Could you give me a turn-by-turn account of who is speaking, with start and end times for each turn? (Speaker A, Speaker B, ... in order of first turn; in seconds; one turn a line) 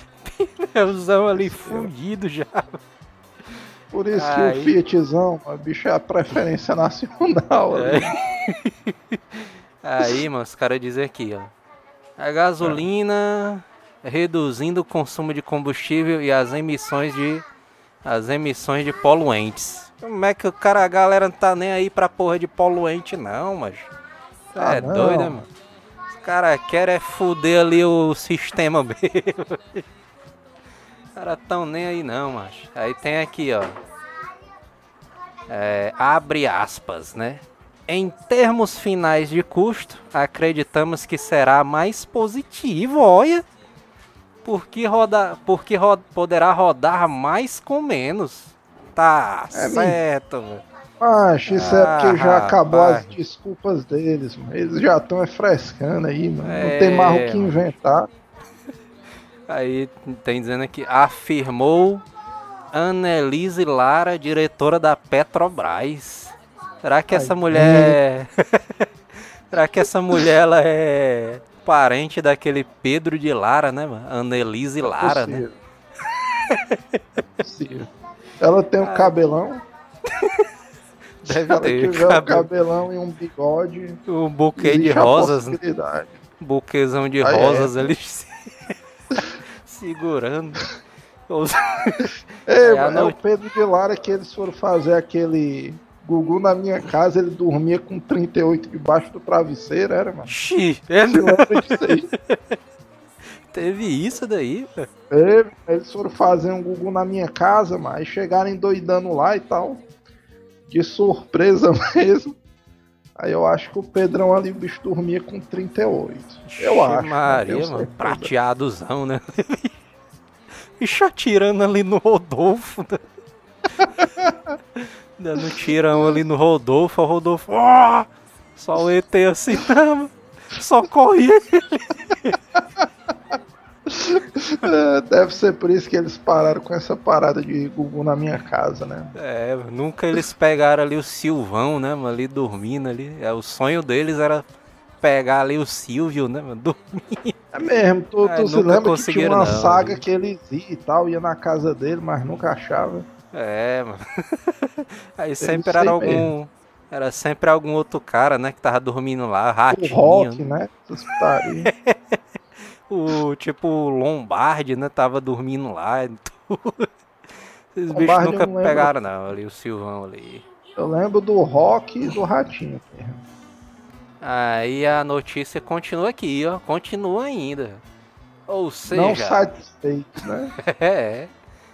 Speaker A: 0.2-2.8
Speaker B: 1.4-1.9
Speaker B: 3.9-8.1
Speaker A: 4.1-4.7
Speaker A: 7.7-11.5
Speaker A: 12.2-17.4
Speaker A: 18.1-23.9
Speaker A: 24.5-25.5
Speaker B: 24.6-25.5
Speaker A: 26.1-29.9
Speaker A: 31.2-33.8
Speaker A: 35.5-43.4
Speaker A: 44.5-50.6
Speaker B: 49.5-50.0
Speaker B: 51.0-58.1
Speaker A: 51.5-53.1
Speaker A: 56.4-57.5
Speaker A: 59.5-62.0
Speaker A: 62.7-68.9
Speaker B: 67.1-68.0
Speaker A: 69.5-75.4
Speaker B: 74.8-75.5
Speaker A: 76.3-77.0
Speaker B: 77.4-77.9
Speaker B: 78.4-79.6
Speaker A: 78.8-79.1
Speaker A: 80.1-80.5
Speaker A: 81.2-82.5
Speaker B: 81.3-84.0
Speaker A: 84.1-85.6
Speaker B: 84.6-86.2
Speaker A: 86.4-88.7
Speaker B: 87.2-87.9
Speaker A: 89.6-90.7
Speaker A: 91.3-93.2
Speaker B: 92.5-100.3
Speaker A: 100.3-102.4
Speaker B: 101.1-102.1
Speaker A: 103.5-104.9
Speaker B: 105.1-109.8
Speaker B: 110.7-112.4
Speaker B: 113.2-118.3
Speaker A: 116.5-119.8
Speaker A: 120.8-123.0
Speaker B: 123.8-124.5
Speaker A: 124.8-132.4
Speaker B: 133.9-139.1
Speaker A: 139.2-144.5
Speaker A: 145.0-147.4
Speaker B: 147.5-153.1
Speaker A: 148.2-150.0
Speaker A: 153.3-160.4
Speaker B: 155.4-156.3
Speaker B: 159.7-161.7
Speaker A: 161.7-162.2
Speaker A: 162.9-166.9
Speaker A: 167.8-170.4
Speaker B: 167.9-168.9
Speaker B: 170.8-173.2
Speaker A: 174.2-177.8
Speaker A: 178.5-179.4
Speaker B: 178.9-180.5
Speaker A: 180.6-181.3